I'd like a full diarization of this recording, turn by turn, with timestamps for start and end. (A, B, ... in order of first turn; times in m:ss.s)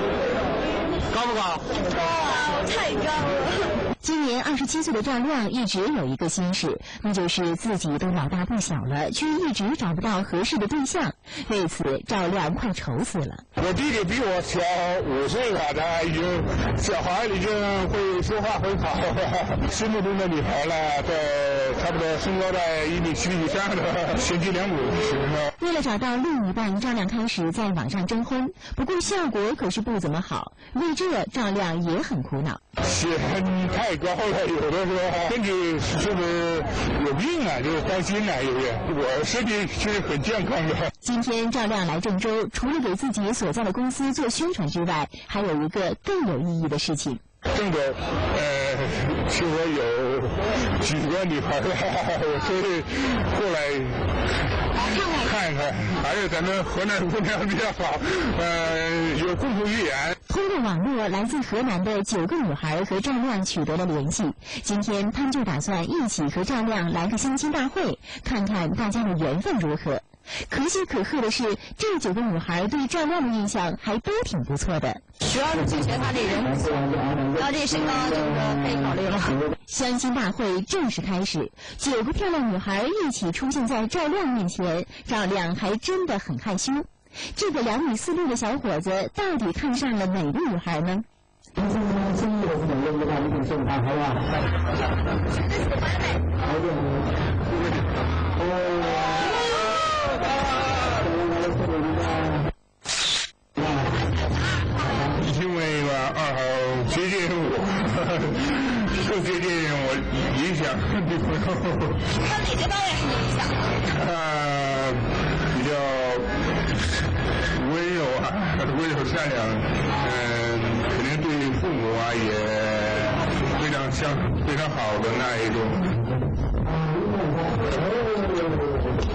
0:02.0-0:03.7 A
0:04.0-0:13.5 B
0:13.6-0:25.5 C
0:25.6-0:32.6 B
0:32.8-0:40.9 C
0:41.0-0:47.2 B
0:47.5-0:54.2 C
0:54.8-1:00.2 C
1:00.3-1:15.0 B
1:15.2-1:19.5 A
1:19.7-1:31.0 B
1:45.0-1:52.1 C
1:52.2-1:53.6 A
1:53.8-1:56.4 C
1:57.5-2:06.0 C